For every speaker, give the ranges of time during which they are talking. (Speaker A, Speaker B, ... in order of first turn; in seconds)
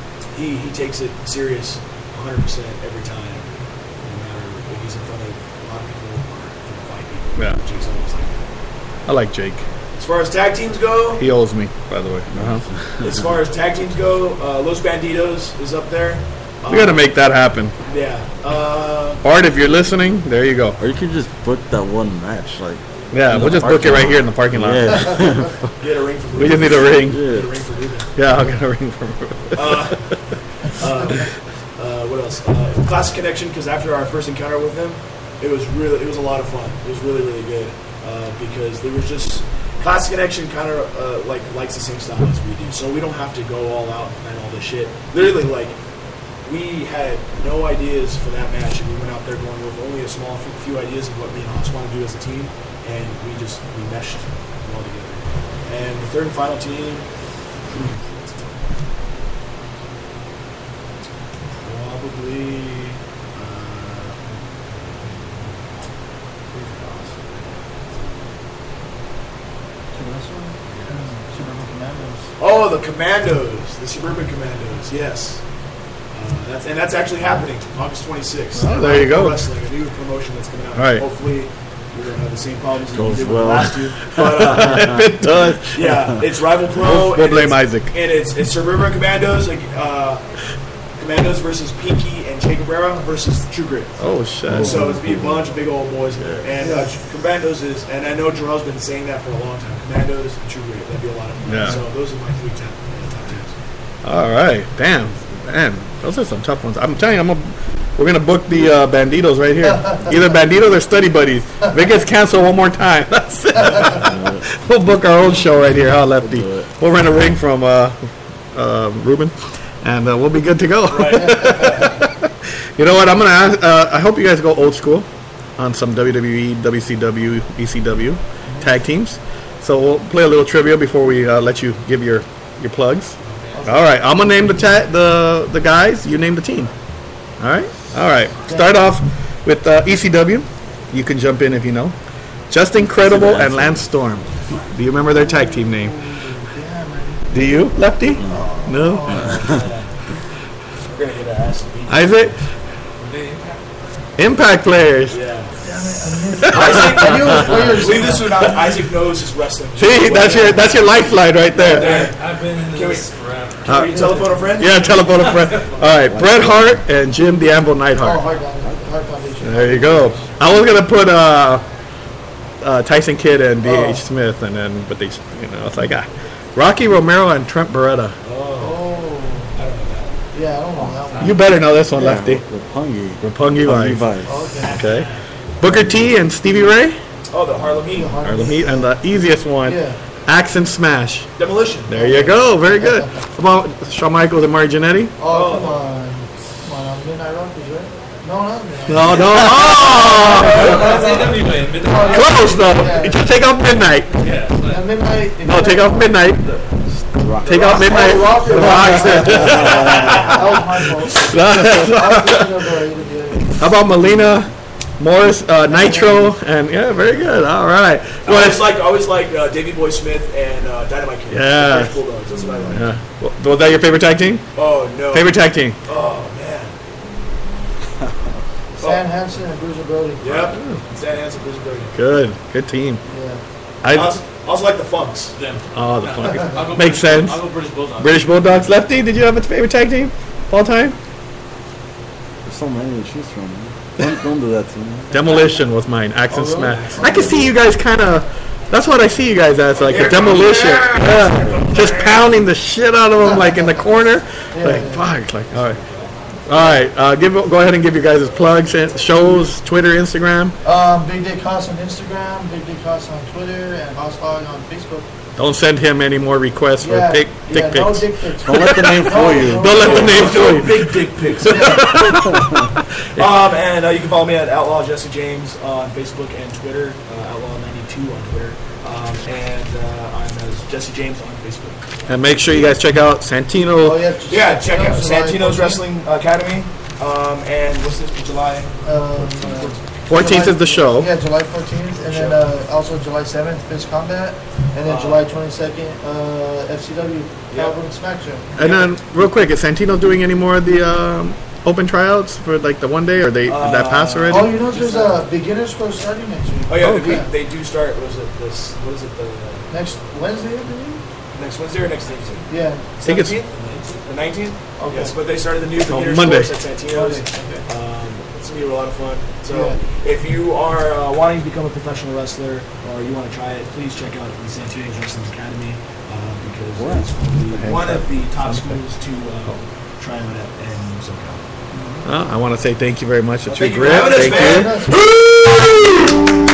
Speaker A: 0.3-3.5, 4.0-8.4, 10.0-11.2, 13.0-17.1, 17.9-19.2, 25.8-28.1, 29.5-30.1, 30.7-45.8, 46.4-57.1, 61.6-65.6, 66.5-68.3, 70.7-71.0, 72.4-75.4, 76.1-85.1, 85.7-90.2, 91.0-103.5, 120.9-122.0, 149.3-149.9, 150.8-152.3, 155.1-155.6, 156.4-160.6, 161.5-163.1, 163.6-165.0, 178.2-178.8, 179.6-180.2, 184.6-185.2, 187.3-188.1, 191.4-191.9, 195.3-195.8, 199.5-201.1, 209.8-210.3, 218.2-222.9, 224.5-226.7, 228.8-229.0, 230.2-231.9, 233.9-235.3, 246.5-247.5, 249.8-252.3, 269.8-272.4, 273.1-281.8, 284.3-289.8, 292.1-292.4, 294.8-295.2, 298.6-298.9, 303.4-305.2, 306.7-309.7, 311.3-331.4, 333.5-334.8
Speaker B: 9.1-9.6, 11.2-12.6, 16.7-17.7, 19.2-20.8, 23.1-25.3, 26.4-27.2, 28.1-29.9, 78.5-79.4, 80.8-81.0, 84.2-86.0, 86.8-87.9, 94.0-94.8, 101.5-101.8, 104.0-118.0, 118.5-125.1, 125.6-136.7, 137.4-141.9, 142.5-146.0, 147.3-149.4, 151.9-152.4, 154.2-155.2, 156.4-157.5, 159.8-162.1, 163.7-168.2, 169.4-171.6, 172.6-178.2, 181.2-182.4, 183.2-184.1, 184.7-185.1, 185.6-187.0, 188.2-191.3, 191.9-195.1, 198.9-200.9, 202.1-204.2, 205.4-206.6, 207.4-212.5, 213.6-218.7, 221.3-222.0, 222.7-224.5, 225.1-225.8, 231.9-233.0, 233.8-234.2, 235.7-237.5, 238.0-240.9, 245.1-255.8, 256.5-260.6, 265.4-272.6, 282.1-284.0, 290.1-291.1, 298.6-304.5, 306.8-307.2, 313.0-313.4, 315.9-316.5, 327.6-328.8, 332.0-336.2
Speaker C: 20.8-25.5, 27.1-27.5, 82.9-85.3, 94.5-95.1, 114.1-114.4, 116.2-116.7, 143.0-143.8, 166.0-166.8, 181.9-184.4, 206.9-210.2, 242.4-245.2, 268.4-270.1, 326.8-327.8
Speaker D: 69.9-72.3, 96.6-96.9, 121.0-121.6, 133.5-133.8, 138.5-138.8, 145.1-147.5, 148.3-149.6, 155.6-158.4, 164.0-164.3, 168.0-170.4, 173.6-174.0, 178.6-179.5, 180.3-181.4, 184.2-184.8, 187.9-188.9, 189.6-190.0, 191.9-193.0, 195.2-203.2, 204.7-206.2, 207.6-213.6, 215.7-216.3, 228.8-230.5, 233.1-233.4, 246.3-247.5, 253.2-253.7, 254.5-255.0, 260.6-265.1, 266.8-270.5, 271.5-272.0, 283.6-285.8, 288.8-298.5, 304.3-307.3, 309.7-311.0, 312.5-312.9, 314.8-315.1, 316.9-317.6, 319.5-319.8, 331.7-332.0, 334.0-335.0
Speaker E: 153.0-153.6, 161.7-165.9, 181.1-181.5, 199.6-202.7, 204.2-204.9, 209.6-210.2, 235.3-238.6